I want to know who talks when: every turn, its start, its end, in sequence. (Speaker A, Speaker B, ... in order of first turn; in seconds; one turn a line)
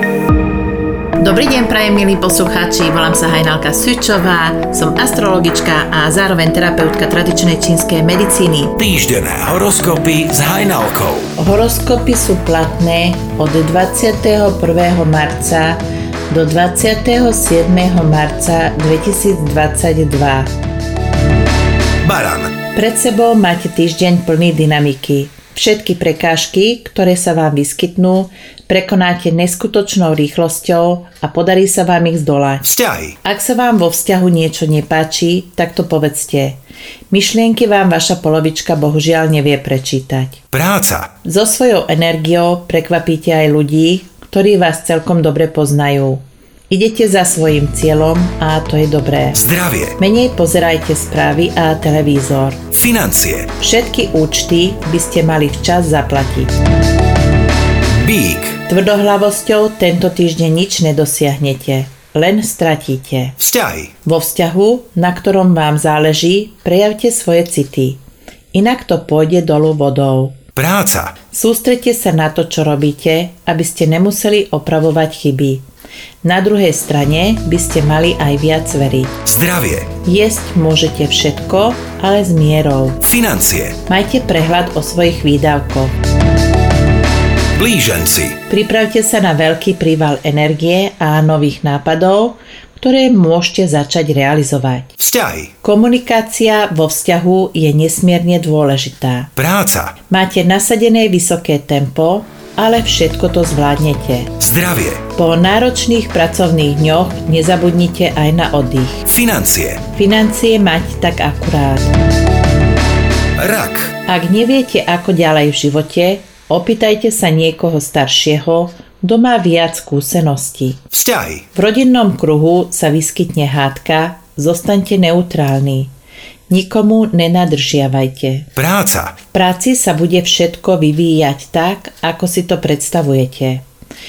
Speaker A: 1.2-8.8
Speaker B: 8.8-11.3
Speaker A: 11.4-20.5
Speaker B: 22.0-22.5
Speaker A: 22.7-32.7
Speaker B: 32.6-33.2
Speaker A: 33.2-36.6
Speaker A: 37.1-40.4
Speaker B: 40.5-41.1
Speaker A: 41.2-49.4
Speaker B: 49.4-50.0
Speaker A: 50.0-52.7
Speaker B: 52.7-53.5
Speaker A: 53.6-56.5
Speaker B: 57.9-58.6
Speaker A: 58.7-63.4
Speaker B: 63.4-63.9
Speaker A: 64.0-68.0
Speaker A: 68.5-70.4
Speaker B: 70.6-71.1
Speaker A: 71.3-75.6
Speaker A: 76.2-79.2
Speaker B: 79.2-79.9
Speaker A: 80.0-83.0
Speaker B: 83.0-83.8
Speaker A: 83.9-86.0
Speaker B: 87.5-88.4
Speaker A: 88.5-94.9
Speaker B: 95.0-95.5
Speaker A: 95.6-99.3
Speaker B: 99.4-100.0
Speaker A: 100.1-104.3
Speaker B: 104.4-105.0
Speaker A: 105.2-109.1
Speaker B: 109.1-109.8
Speaker A: 109.9-111.9
Speaker B: 113.4-113.9
Speaker A: 114.1-120.8
Speaker B: 120.9-121.4
Speaker A: 121.5-125.9
Speaker A: 126.5-128.5
Speaker B: 128.6-129.2
Speaker A: 129.3-133.6